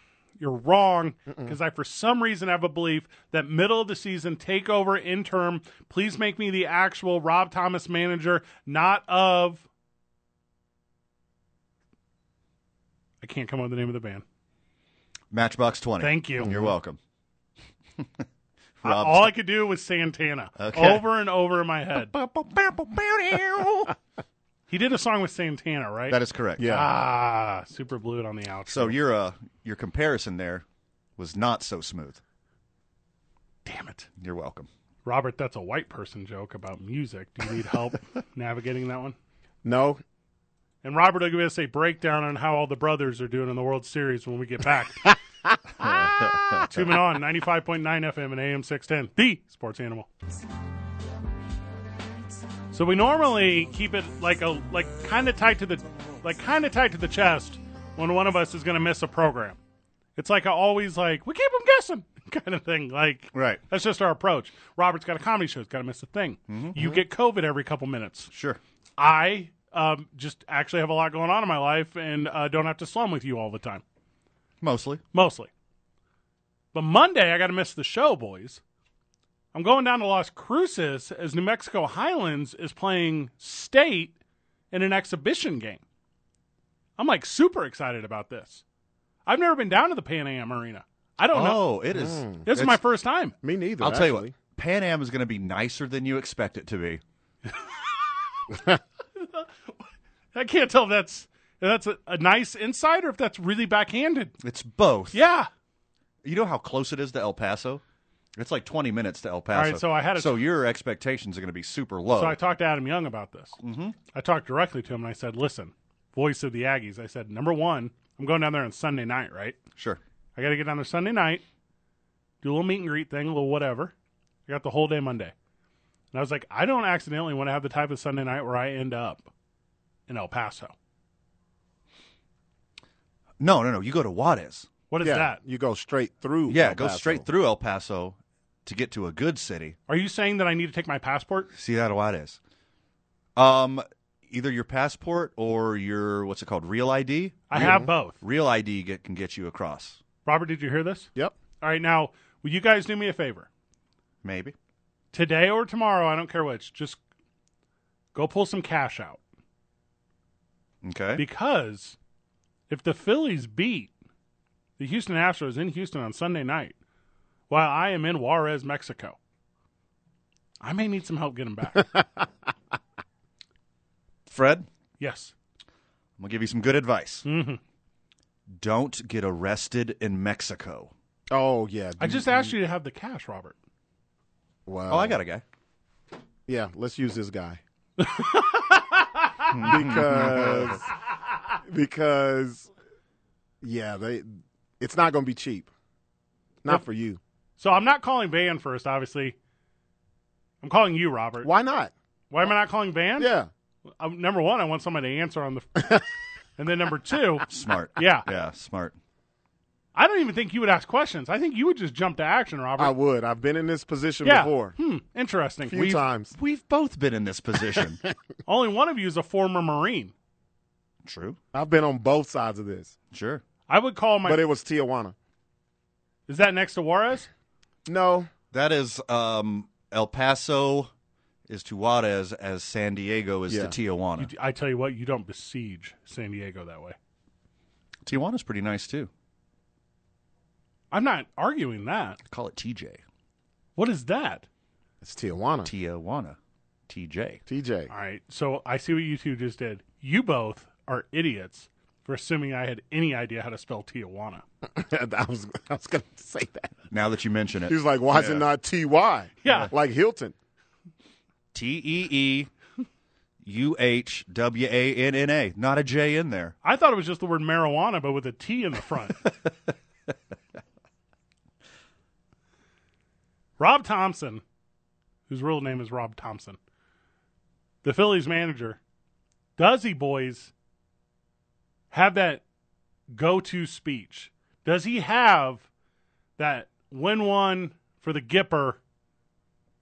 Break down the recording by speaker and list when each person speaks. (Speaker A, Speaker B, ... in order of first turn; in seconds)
Speaker A: 0.4-9.6, 13.2-14.2, 16.0-16.5, 18.8-22.1, 24.7-28.9, 33.6-34.1, 35.0-39.1, 40.8-45.1, 46.7-50.1, 52.7-59.6, 60.1-68.3, 69.0-73.8, 75.1-75.5, 76.7-78.6, 79.5-84.2, 84.7-85.8, 87.0-88.6, 89.2-91.6, 92.5-93.3, 99.2-99.5, 100.3-104.3, 105.1-105.5, 109.5-110.4, 112.1-113.6, 114.1-119.6, 120.3-121.4, 122.4-123.9, 124.5-125.3, 126.1-129.3, 130.1-130.7, 134.9-135.4, 139.9-141.5, 147.5-148.2, 150.2-151.1, 151.6-153.5, 155.1-157.0, 158.1-159.2, 161.2-162.0, 162.7-163.9, 164.8-166.7, 167.5-169.2, 170.6-172.0, 175.0-175.3, 177.2-177.6, 182.0-183.6, 188.0-189.8, 197.6-199.3, 200.6-201.5, 202.3-203.3, 204.0-206.1, 206.6-208.3, 209.9-212.9, 214.2-216.0, 218.4-220.1, 223.7-224.4, 226.3-227.3, 234.2-236.9, 240.9-242.2, 243.8-244.4, 247.9-254.4, 259.4-259.7, 266.6-269.3, 273.6-274.4, 275.3-276.6, 277.8-278.8, 279.6-280.5, 281.9-282.4, 283.1-285.6, 286.4-288.8
Speaker B: 15.3-17.0, 18.8-19.3, 20.6-21.1, 22.1-23.9, 26.1-26.7, 28.7-30.6, 31.2-32.2, 34.2-34.7, 46.4-46.8, 63.3-63.6, 66.5-67.0, 68.3-68.6, 74.6-75.0, 91.3-92.8, 93.8-97.0, 104.4-105.2, 106.2-107.8, 108.3-112.4, 113.6-114.0, 133.4-134.7, 136.5-139.8, 141.5-142.4, 143.3-150.0, 154.2-154.5, 160.8-161.2, 174.3-174.7, 176.2-177.3, 178.6-180.9, 184.9-185.4, 189.5-190.8, 207.4-208.9, 216.3-218.0, 221.0-221.4, 223.1-223.4, 228.5-230.9, 231.5-234.3, 238.0-239.1, 242.3-243.0, 245.6-246.4, 246.9-247.4, 256.9-258.4, 261.5-262.5, 263.4-266.5
Speaker C: 16.4-16.7, 26.6-26.9, 39.6-40.0, 45.8-46.7, 91.9-92.5, 93.4-94.3, 135.0-137.3, 147.6-147.9, 181.3-182.5, 184.7-185.2, 186.5-187.6, 189.6-190.8, 191.6-192.7, 193.6-195.7, 196.6-197.2, 201.4-201.9, 203.2-203.5, 212.8-214.7, 215.7-216.3, 221.5-222.9, 224.2-225.1, 227.8-228.3, 233.5-233.7, 245.0-245.7, 247.5-247.9, 254.6-256.8, 257.6-260.4